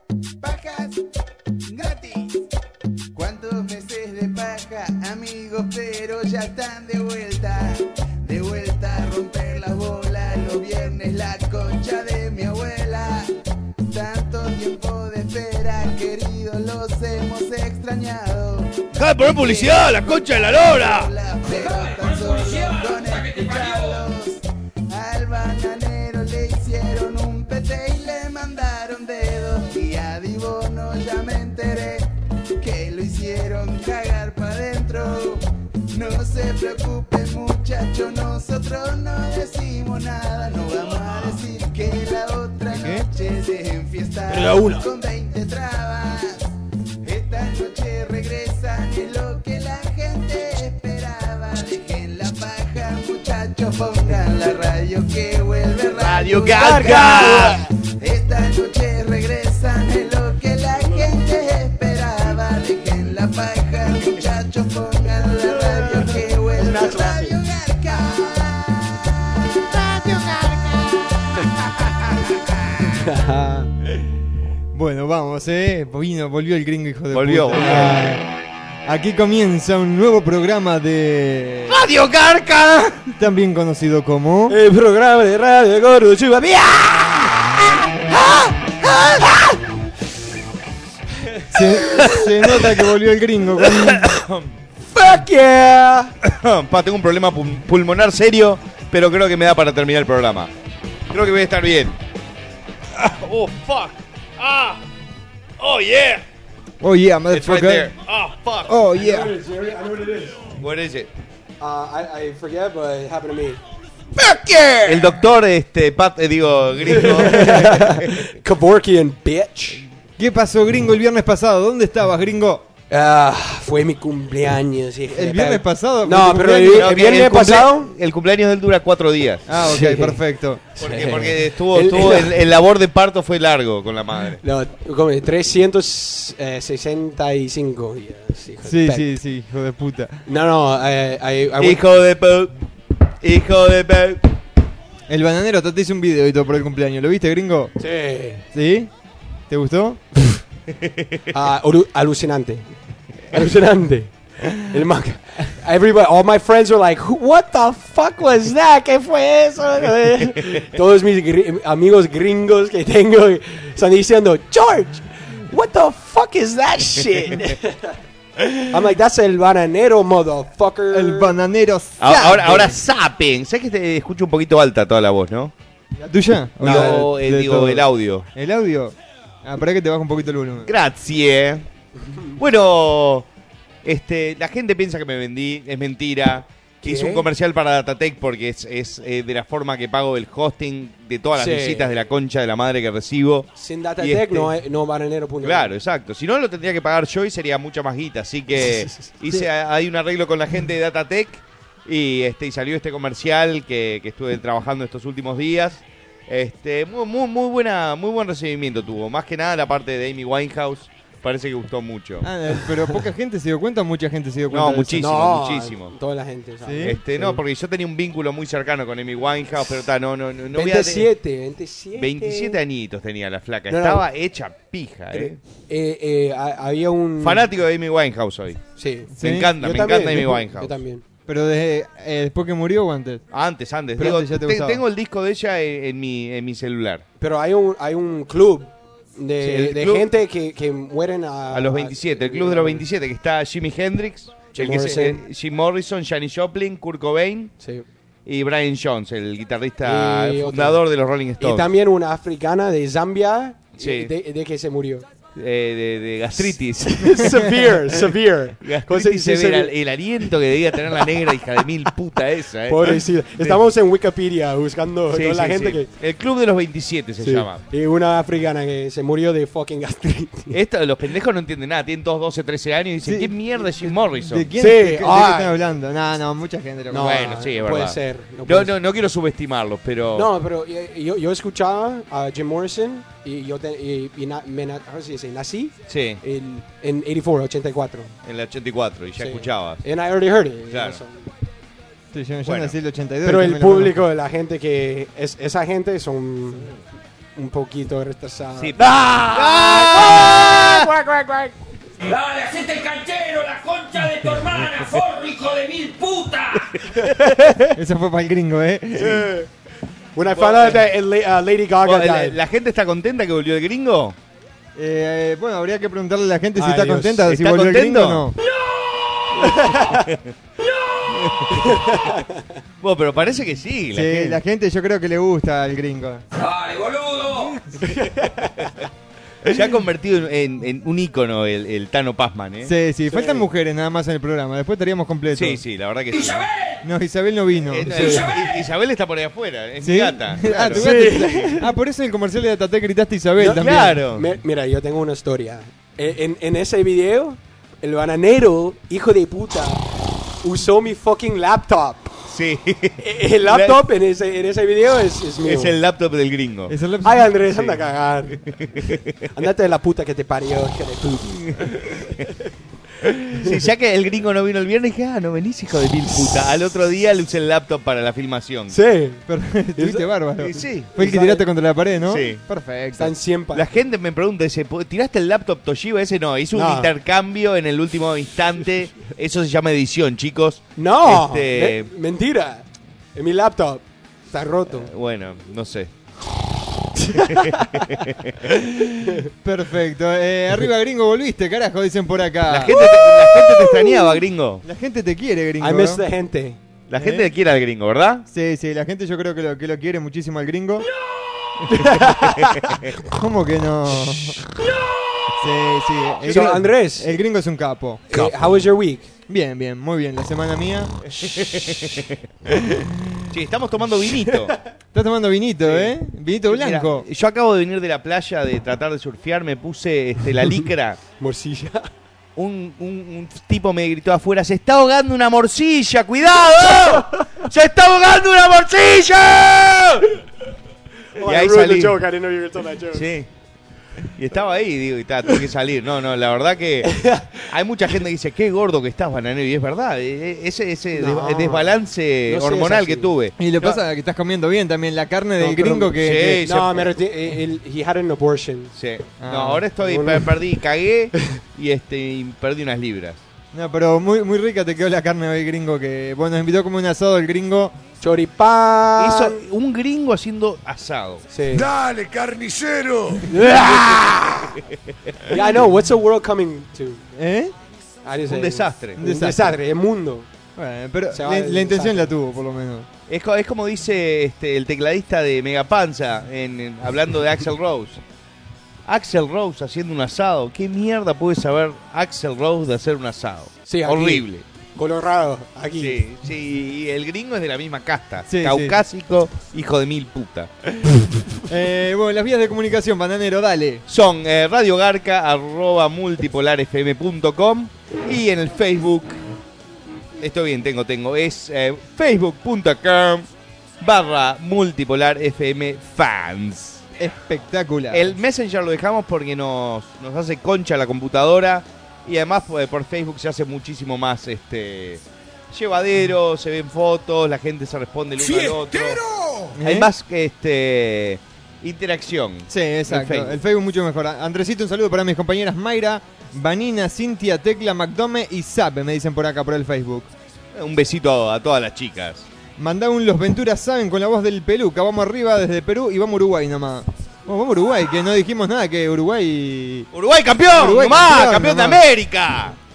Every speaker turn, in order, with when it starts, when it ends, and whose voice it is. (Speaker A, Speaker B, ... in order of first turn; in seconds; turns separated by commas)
Speaker A: 0.4-1.0, Speaker A: 1.7-2.4, Speaker A: 3.1-13.3, Speaker A: 13.9-46.5, Speaker B: 18.9-21.1, Speaker C: 21.4-24.0, Speaker D: 42.7-43.0, Speaker E: 44.3-44.9, Speaker A: 47.0-68.8, Speaker B: 56.0-57.6, Speaker E: 56.1-57.6, Speaker E: 65.8-67.3, Speaker E: 72.9-73.7, Speaker D: 74.7-78.1, Speaker B: 77.1-78.0, Speaker E: 77.6-78.2, Speaker D: 78.8-81.8, Speaker B: 81.7-83.1, Speaker D: 83.2-84.6, Speaker E: 84.5-87.3, Speaker E: 88.7-89.5, Speaker D: 91.5-94.0, Speaker B: 94.0-94.3, Speaker E: 94.9-96.1, Speaker B: 96.2-100.5, Speaker B: 101.1-102.0, Speaker B: 103.0-104.8, Speaker B: 105.6-106.2, Speaker D: 106.8-107.9, Speaker B: 107.3-108.7, Speaker D: 108.7-109.3, Speaker E: 109.0-110.5, Speaker B: 110.6-111.1, Speaker E: 111.6-113.6, Speaker B: 114.3-118.0, Speaker E: 116.9-119.8, Speaker D: 120.2-122.7, Speaker E: 122.9-127.9, Speaker D: 125.1-126.9, Speaker B: 126.7-129.4, Speaker D: 129.5-130.7, Speaker E: 129.7-130.2, Speaker E: 130.8-132.3, Speaker B: 130.8-134.4, Speaker E: 134.4-139.1, Speaker D: 138.6-140.2, Speaker E: 140.2-141.8, Speaker B: 141.6-142.5, Speaker B: 143.2-144.2, Speaker D: 145.1-147.7, Speaker E: 147.8-148.4, Speaker D: 148.5-148.9, Speaker D: 149.5-150.0, Speaker B: 150.8-151.2, Speaker E: 151.3-152.7, Speaker E: 153.3-167.8, Speaker E: 168.7-171.3, Speaker D: 170.9-172.7, Speaker B: 172.0-175.5, Speaker D: 176.0-180.7, Speaker E: 176.6-177.0, Speaker B: 176.6-178.2, Speaker B: 180.7-181.7, Speaker E: 182.0-182.3, Speaker B: 182.4-183.3, Speaker B: 183.8-194.5, Speaker E: 186.8-187.3, Speaker E: 191.3-191.9, Speaker E: 193.6-195.7, Speaker B: 195.4-212.3, Speaker E: 198.6-199.0, Speaker D: 212.2-215.1, Speaker B: 214.5-215.9, Speaker E: 215.0-217.4, Speaker D: 216.6-217.0, Speaker B: 216.8-221.1, Speaker E: 220.5-222.6, Speaker B: 222.0-225.4, Speaker E: 223.7-224.0, Speaker E: 225.1-227.5, Speaker B: 227.2-228.6, Speaker E: 228.8-231.0, Speaker D: 229.1-229.5, Speaker B: 229.2-230.8, Speaker D: 231.3-233.2, Speaker B: 233.3-237.0, Speaker D: 234.0-234.8, Speaker E: 237.2-242.8, Speaker B: 239.4-240.1, Speaker B: 241.5-247.5, Speaker E: 244.5-245.2, Speaker E: 247.6-247.8, Speaker B: 248.2-251.7, Speaker E: 249.8-250.8, Speaker E: 251.4-255.0, Speaker B: 253.8-254.1, Speaker B: 255.3-257.3, Speaker E: 256.4-259.7, Speaker B: 258.6-263.5, Speaker E: 262.7-265.9, Speaker B: 265.1-267.6, Speaker E: 267.2-270.5, Speaker B: 270.5-274.5, Speaker D: 273.0-277.3, Speaker E: 274.6-275.5, Speaker E: 276.9-278.7, Speaker B: 277.0-280.3, Speaker E: 280.1-288.1, Speaker B: 285.9-286.2, Speaker B: 288.2-289.8, Speaker E: 289.2-291.3, Speaker B: 290.7-291.0, Speaker D: 292.1-293.9, Speaker B: 292.4-292.7, Speaker E: 293.2-296.7, Speaker E: 297.4-301.5, Speaker B: 298.6-300.9, Speaker C: 302.0-306.6, Speaker E: 306.9-307.7, Speaker D: 307.8-309.3, Speaker E: 310.1-312.4, Speaker B: 310.3-310.9, Speaker B: 311.8-314.1, Speaker D: 314.8-318.3, Speaker E: 316.6-317.2, Speaker B: 317.2-318.2, Speaker E: 319.3-320.1, Speaker C: 320.6-321.1, Speaker B: 321.1-321.7, Speaker E: 321.5-322.4, Speaker B: 322.8-324.4, Speaker D: 323.9-326.2, Speaker C: 326.3-327.6, Speaker E: 327.8-328.7, Speaker B: 329.4-332.7, Speaker D: 332.6-335.6, Speaker E: 333.1-333.4, Speaker B: 335.3-336.5, Speaker C: 336.1-336.8, Speaker D: 336.8-337.9, Speaker B: 337.7-341.5, Speaker E: 337.9-338.3, Speaker C: 338.1-338.6, Speaker D: 339.8-343.9, Speaker E: 340.7-341.6, Speaker E: 343.4-349.8, Speaker B: 343.5-344.2, Speaker E: 350.4-352.1, Speaker B: 352.3-353.8, Speaker E: 353.0-355.8, Speaker B: 355.4-356.7, Speaker D: 356.7-357.7, Speaker E: 357.0-358.4, Speaker B: 358.8-359.2, Speaker E: 359.3-361.4, Speaker B: 361.4-362.0, Speaker B: 363.0-368.7, Speaker E: 368.7-369.2, Speaker D: 369.3-373.1, Speaker E: 369.8-370.1, Speaker B: 370.4-370.9, Speaker E: 371.0-371.4, Speaker B: 372.1-372.4, Speaker E: 372.9-373.6, Speaker B: 373.5-381.9, Speaker E: 376.5-376.9, Speaker E: 380.8-384.9, Speaker B: 384.7-385.9, Speaker E: 387.0-387.9, Speaker B: 387.1-388.3, Speaker D: 389.4-392.8, Speaker B: 392.5-394.6, Speaker D: 394.6-396.0, Speaker E: 395.6-396.6, Speaker B: 396.9-398.2, Speaker D: 397.0-397.3, Speaker D: 398.3-400.9, Speaker E: 401.7-402.8, Speaker D: 403.1-404.4, Speaker D: 405.4-408.0, Speaker E: 406.3-407.1, Speaker E: 408.1-409.1, Speaker D: 409.3-411.0, Speaker B: 411.2-412.1, Speaker B: 413.3-414.5, Speaker D: 414.9-417.0, Speaker B: 416.5-421.0, Speaker E: 421.2-421.9, Speaker B: 422.4-430.0, Speaker E: 431.2-433.0, Speaker B: 431.2-432.0, Speaker B: 432.9-433.3, Speaker B: 434.1-443.8, Speaker E: 436.9-437.3, Speaker E: 440.9-441.7, Speaker E: 442.3-443.1, Speaker D: 443.4-446.4, Speaker E: 445.4-448.7, Speaker B: 445.9-446.9, Speaker B: 448.8-453.2, Speaker D: 449.2-449.6, Speaker E: 449.8-450.4, Speaker D: 453.5-457.8, Speaker E: 458.0-459.4, Speaker B: 459.0-461.2, Speaker E: 461.3-461.7, Speaker E: 463.2-464.5, Speaker E: 465.3-467.0, Speaker D: 467.1-467.5, Speaker E: 468.0-470.3, Speaker B: 468.3-469.0, Speaker D: 469.0-469.6, Speaker D: 470.6-472.9, Speaker E: 471.1-472.1, Speaker B: 473.1-478.0, Speaker B: 478.9-484.4, Speaker E: 483.6-484.2, Speaker E: 484.8-486.0, Speaker B: 485.8-490.5, Speaker D: 488.3-488.8, Speaker D: 491.5-493.8, Speaker B: 493.9-499.2, Speaker B: 500.2-503.3, Speaker B: 503.8-506.8, Speaker D: 507.0-508.1, Speaker B: 507.9-519.0, Speaker D: 519.5-519.9, Speaker B: 519.6-523.4, Speaker D: 522.5-530.1, Speaker B: 530.5-532.3, Speaker D: 532.6-539.9, Speaker B: 539.9-542.6, Speaker D: 540.5-541.8